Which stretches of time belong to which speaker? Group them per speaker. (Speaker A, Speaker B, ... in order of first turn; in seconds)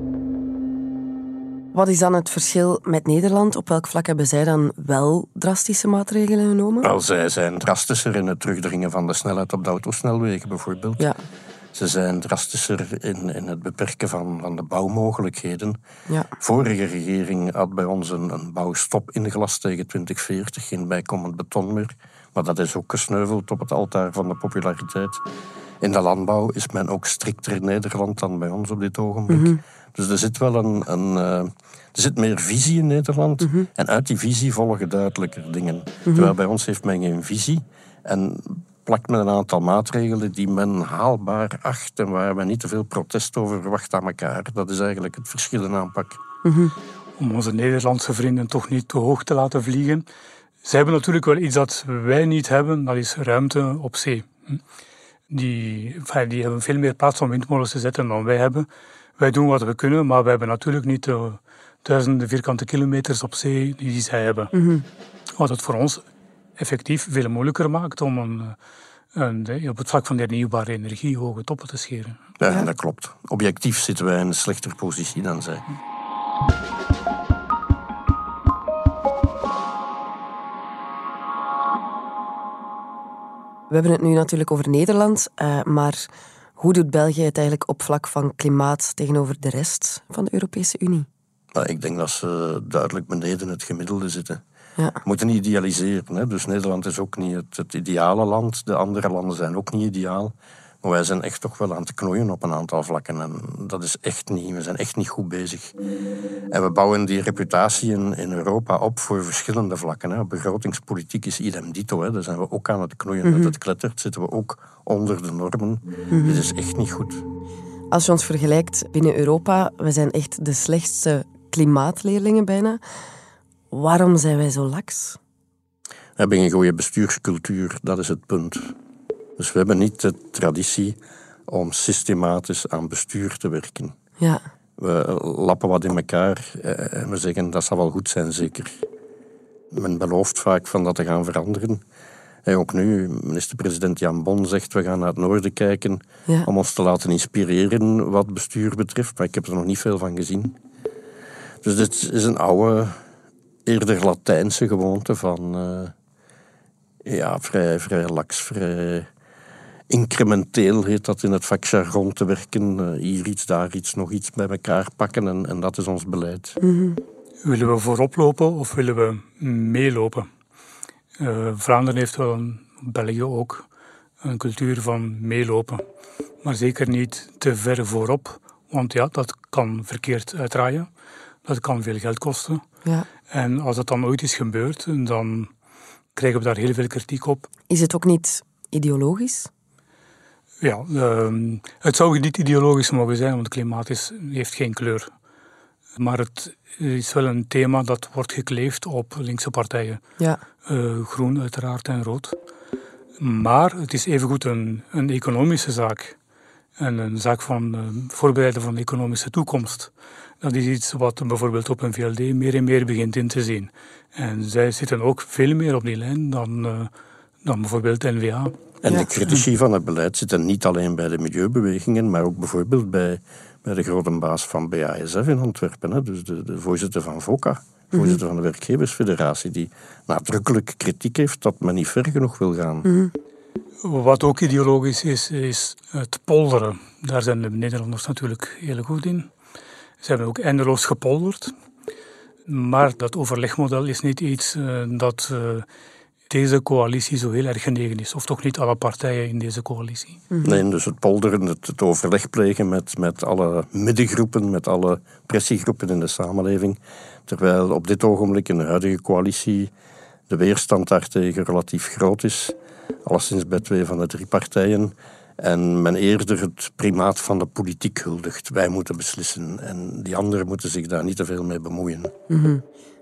Speaker A: 1.7-6.9, 29.3-29.6, 46.4-46.7, 64.5-64.8, 83.7-91.1, 113.2-113.5, 116.1-116.4, 117.9-122.8, 123.7-125.2, 166.6-167.0, 187.7-189.5, 227.9-228.2, 232.8-233.1, 272.3-272.6
Speaker B: 6.8-11.1, 11.7-15.8, 16.4-25.2, 25.8-46.2, 72.4-75.6, 91.5-94.4, 95.0-105.8, 106.5-117.2, 126.2-128.7, 129.4-131.0, 131.5-133.9, 134.8-138.8, 139.7-141.8, 142.4-150.6, 151.6-153.0, 153.7-155.9, 157.0-159.1, 159.9-166.6, 218.8-232.9, 250.4-259.7, 260.3-262.5, 263.1-272.1
Speaker C: 47.2-50.0, 50.6-54.6, 55.3-64.5, 65.4-66.0, 66.6-68.5, 69.1-72.2, 167.4-170.3, 171.2-173.6, 174.2-175.8, 176.4-180.9, 181.4-182.6, 183.3-185.5, 186.1-187.5, 190.6-195.1, 195.9-200.0, 200.6-202.3, 203.2-206.2, 206.8-209.9, 210.4-216.9, 217.4-218.6, 233.8-239.3, 240.0-241.5, 242.5-245.7, 246.3-250.2